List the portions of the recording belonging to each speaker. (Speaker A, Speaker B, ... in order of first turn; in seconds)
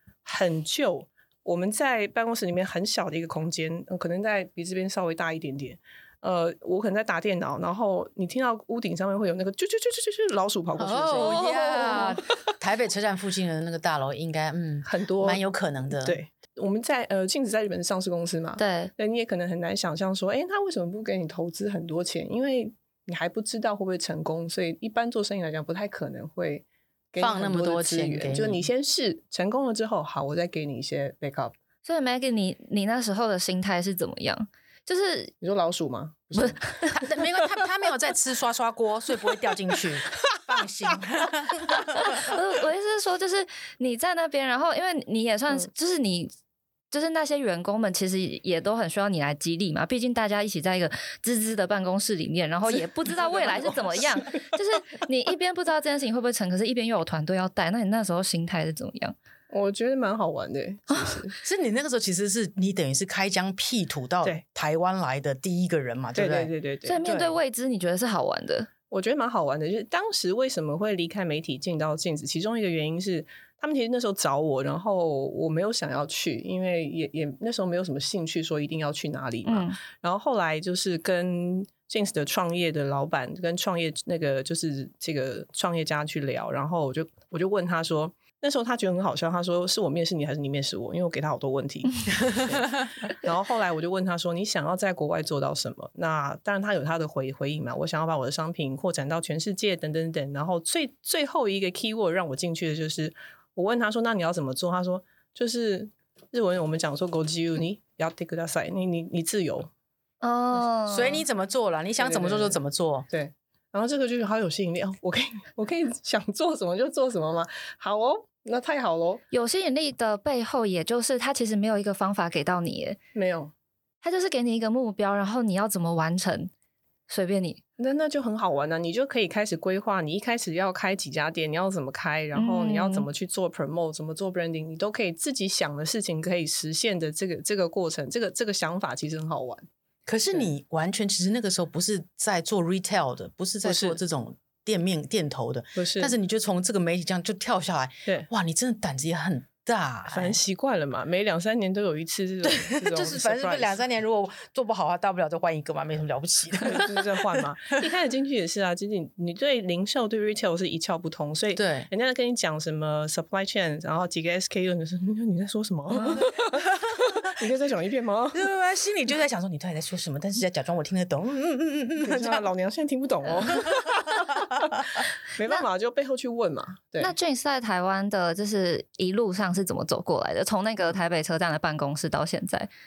Speaker A: 0.2-12.3, 14.8-15.4, 16.0-31.5, 35.4-36.8, 52.8-54.3, 59.5-61.4, 66.2-67.0, 68.9-109.7, 112.0-112.6, 113.1-119.2, 123.1-123.5, 127.8-139.7, 143.6-144.0, 145.8-146.1, 150.1-153.8, 156.6-168.5, 172.0-177.1
Speaker B: 10.8-16.2, 27.2-28.7, 36.9-42.3, 61.4-66.5, 67.0-67.4, 110.9-113.1, 140.1-150.4, 152.4-157.1, 161.6-161.9, 166.2-167.3, 168.3-172.5, 173.5-175.0
Speaker C: 11.1-12.2, 18.6-18.9, 31.8-35.3, 36.3-37.0, 41.9-46.3, 46.9-59.1, 66.8-68.7, 79.5-79.8, 110.2-111.2, 119.3-123.0, 124.0-126.5, 127.1-127.6, 132.3-133.1, 165.9-166.3, 177.0-182.7